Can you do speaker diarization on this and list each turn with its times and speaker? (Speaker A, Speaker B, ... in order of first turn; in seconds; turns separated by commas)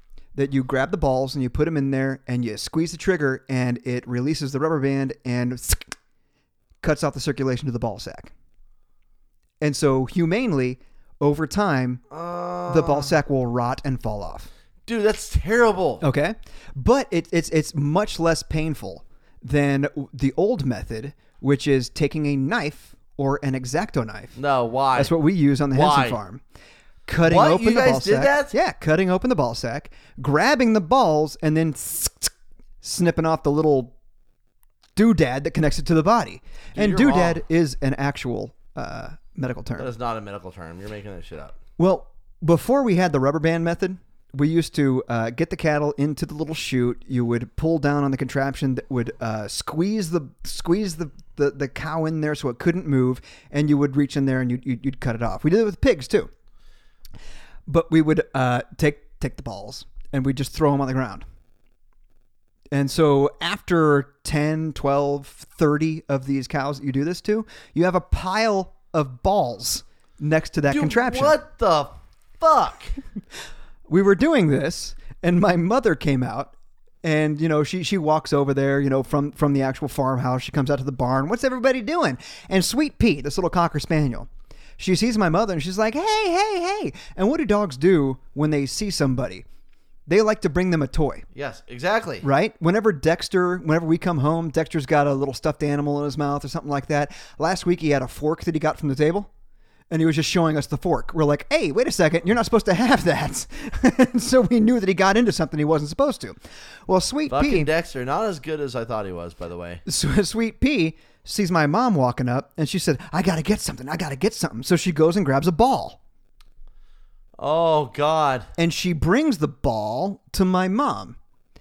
Speaker A: 0.3-5.9, Speaker A: 6.8-8.3, Speaker A: 9.6-12.0, Speaker B: 12.1-13.1, Speaker A: 12.7-14.5, Speaker B: 14.9-16.0, Speaker A: 16.0-24.4, Speaker B: 24.4-25.1, Speaker A: 24.9-26.4, Speaker B: 25.7-26.2, Speaker A: 27.1-33.9, Speaker B: 27.2-28.5, Speaker A: 35.0-39.9, Speaker B: 36.7-37.4, Speaker B: 39.8-41.6, Speaker A: 41.8-56.3, Speaker A: 57.7-61.2, Speaker A: 62.7-71.4, Speaker B: 70.7-72.9, Speaker A: 73.9-89.4, Speaker A: 90.1-91.2, Speaker B: 91.3-92.2, Speaker A: 92.2-99.3, Speaker A: 99.9-107.7, Speaker B: 107.3-109.8, Speaker A: 109.8-116.0, Speaker B: 117.4-118.5, Speaker A: 118.6-121.2